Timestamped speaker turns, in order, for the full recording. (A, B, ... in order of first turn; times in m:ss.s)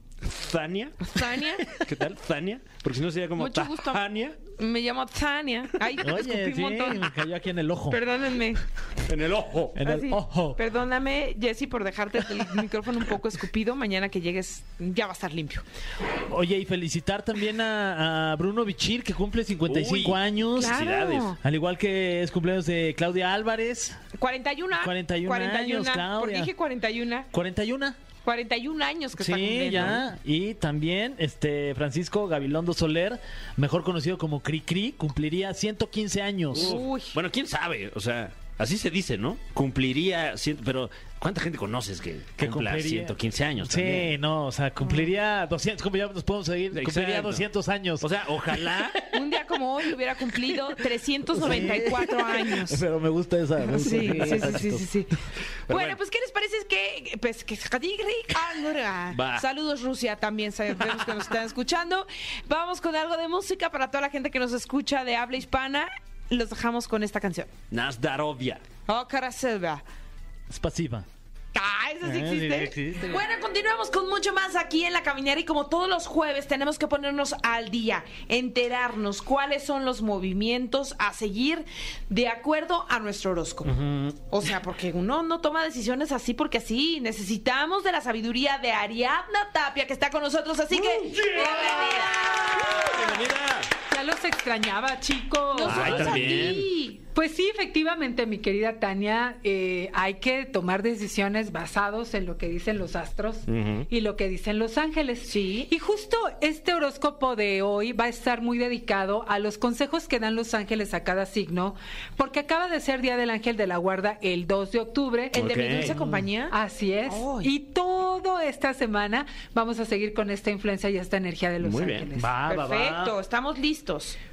0:00.2-0:04.4 A
0:01.0-0:01.7 B
0:03.4-0:07.2 B
0:06.0-0:08.0 C
0:07.9-0:08.6 B
0:09.1-0:09.8 A
0:09.7-0:10.6 C
0:09.8-0:15.6 B
0:16.3-0:20.8 C
0:19.7-0:21.3 A
0:20.5-0:21.4 B
0:21.4-0:24.0 C
0:24.2-0:27.3 B
0:24.8-0:26.5 C
0:27.3-0:28.0 C
0:28.2-0:30.0 B
0:29.2-0:36.8 C
0:36.5-0:37.2 B
0:36.5-0:44.1 A
0:42.4-0:48.1 C
0:44.8-0:45.1 B
0:46.7-0:47.4 A
0:48.0-0:49.1 A
0:49.0-0:52.8 B
0:51.3-0:54.9 C
0:53.7-0:55.1 B
0:55.7-1:07.5 B
0:55.7-0:56.0 A
0:59.1-0:59.4 A
1:07.7-1:08.6 A
1:08.9-1:09.8 B
1:10.5-1:11.1 C
1:11.5-1:23.7 B
1:12.0-1:13.2 C
1:23.7-1:24.2 C
1:24.3-1:33.1 B
1:30.7-1:33.7 A
1:33.9-1:36.0 D
1:35.5-1:37.0 B
1:35.6-1:36.7 A
1:35.7-1:36.5 C
1:37.0-1:55.8 D
1:43.5-1:43.8 A
1:55.3-1:56.5 B
1:55.3-1:56.1 A
1:56.5-2:02.3 D
1:57.1-1:57.5 B
2:01.6-2:02.1 A
2:02.1-2:03.1 C
2:02.5-2:04.2 B